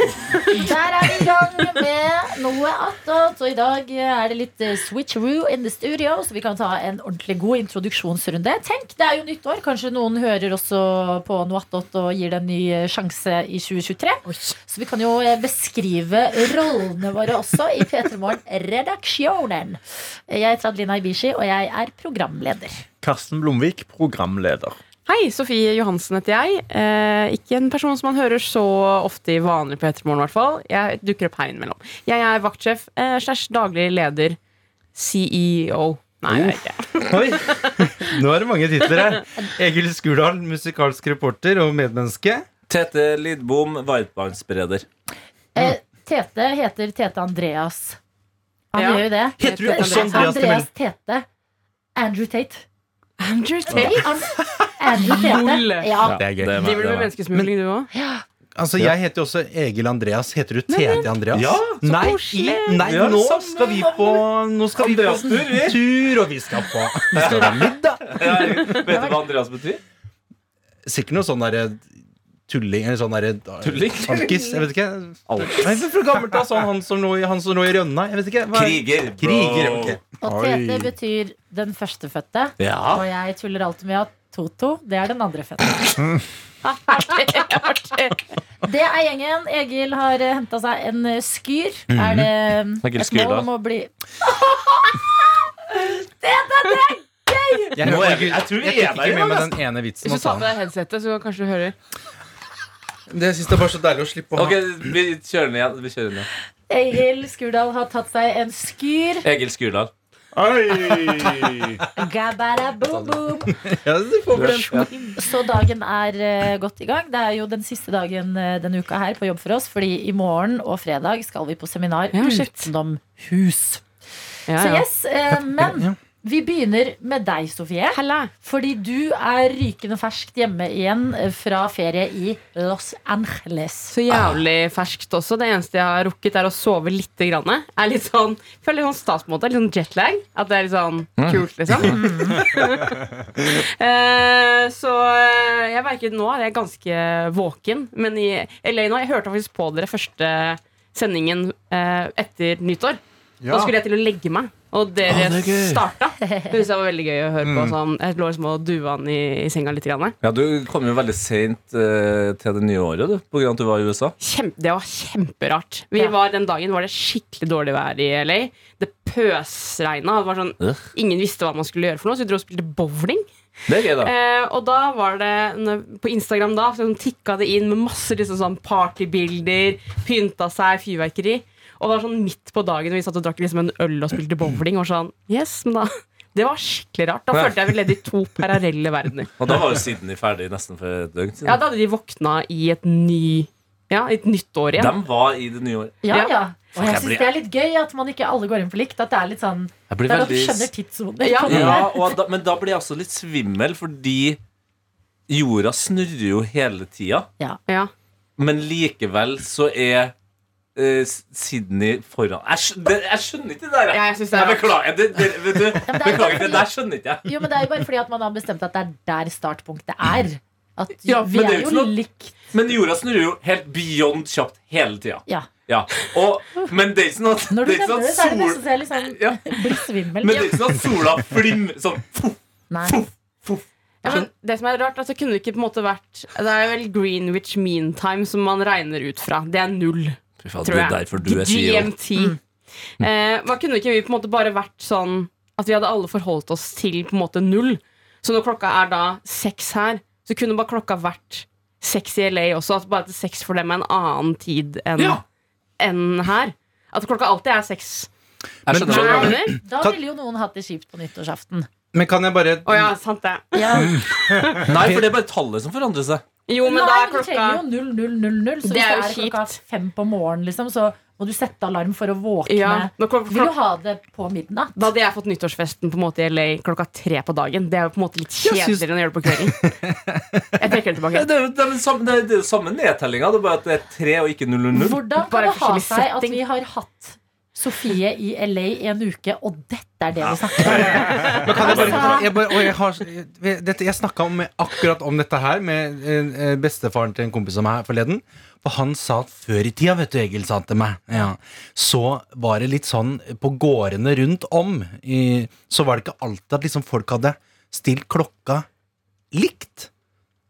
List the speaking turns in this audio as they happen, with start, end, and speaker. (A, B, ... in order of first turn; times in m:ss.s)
0:00.3-0:00.7 A
0:00.5-0:22.8 B
0:14.3-0:14.6 A
0:23.0-0:24.8 C
0:25.1-0:34.4 A
0:35.0-0:37.7 A
0:36.3-0:42.4 D
0:42.7-0:44.9 E
0:45.6-0:48.0 B
0:48.7-0:51.3 B
0:48.8-0:50.4 A
0:49.4-0:50.7 D
0:52.0-0:52.6 B
0:53.2-0:54.2 A
0:53.7-0:56.2 B
0:55.0-0:55.9 A
0:56.0-0:57.1 E
0:56.1-0:56.7 C
0:56.5-0:57.9 A
0:57.9-0:58.2 B
0:58.6-1:08.9 D
1:00.7-1:01.1 A
1:01.3-1:01.8 E
1:01.8-1:02.8 A
1:02.8-1:04.0 E
1:04.8-1:05.8 E
1:07.1-1:09.8 E
1:08.9-1:09.1 B
1:10.8-1:11.9 D
1:12.5-1:20.0 D
1:13.6-1:14.4 E
1:15.3-1:15.7 E
1:18.5-1:20.0 E
1:20.2-1:25.9 B
1:20.2-1:20.9 C
1:22.6-1:23.1 E
1:26.6-1:28.2 A
1:28.6-1:33.9 B
1:31.9-1:32.3 D
1:32.8-1:33.5 E
1:34.5-1:35.1 B
1:35.7-1:37.8 B
1:37.7-1:39.6 E
1:37.7-1:40.5 D
1:40.0-1:41.8 A
1:43.1-1:44.6 D
1:44.4-1:46.3 E
1:46.7-1:49.3 B
1:49.2-1:49.9 E
1:50.4-1:51.8 C
1:52.0-1:53.7 B
1:52.9-1:54.9 D
1:54.3-1:54.9 E
1:54.4-2:03.8 B
2:02.1-2:02.7 A
2:04.5-2:04.9 A
2:04.6-2:13.9 B
2:05.6-2:06.0 D
2:07.9-2:08.3 A
2:13.9-2:40.2 A
2:14.1-2:14.4 E
2:21.2-2:22.0 E
2:21.8-2:22.4 B
2:33.4-2:33.8 C
2:35.1-2:35.8 E
2:36.2-2:36.6 B
2:37.4-2:37.8 D
2:40.2-2:44.2 E
2:44.2-2:53.3 A
2:53.7-2:54.1 E
2:54.0-3:09.3 A
3:07.3-3:07.9 E
3:09.4-3:11.6 E
3:11.4-3:15.0 A
3:14.7-3:16.0 E
3:16.0-3:22.2 B
3:16.1-3:16.4 A
3:16.8-3:17.3 E
3:19.9-3:20.7 E
3:21.2-3:21.9 A
3:21.5-3:24.4 E
3:25.3-3:27.3 E
3:27.7-3:27.9 A
3:28.4-3:30.1 E
3:30.8-3:37.3 E
3:33.9-3:34.8 A
3:35.9-3:36.7 B
3:37.2-3:42.4 B
3:41.1-3:42.0 E
3:42.5-3:53.6 E
3:47.5-3:50.7 B
3:50.3-3:50.6 A
3:52.7-3:53.0 B
3:54.0-4:02.4 A
4:00.4-4:01.9 E
4:03.0-4:15.2 A
4:15.0-4:15.2 E
4:15.8-4:18.1 A
4:18.7-4:19.4 E
4:18.7-4:20.0 D
4:18.9-4:19.6 A
4:18.9-4:21.7 B
4:21.9-4:23.0 D
4:22.6-4:24.8 A
4:23.5-4:24.0 B
4:24.6-4:26.2 E
4:26.5-4:27.6 A
4:26.6-4:34.9 B
4:28.6-4:29.6 A
4:32.5-4:33.5 A
4:34.8-4:39.6 A
4:38.4-4:40.7 D
4:40.6-4:41.3 A
4:41.1-4:45.0 E
4:44.7-4:52.3 B
4:45.2-4:46.4 A
4:50.2-4:52.3 E
4:50.6-5:08.7 D
5:09.3-5:09.9 D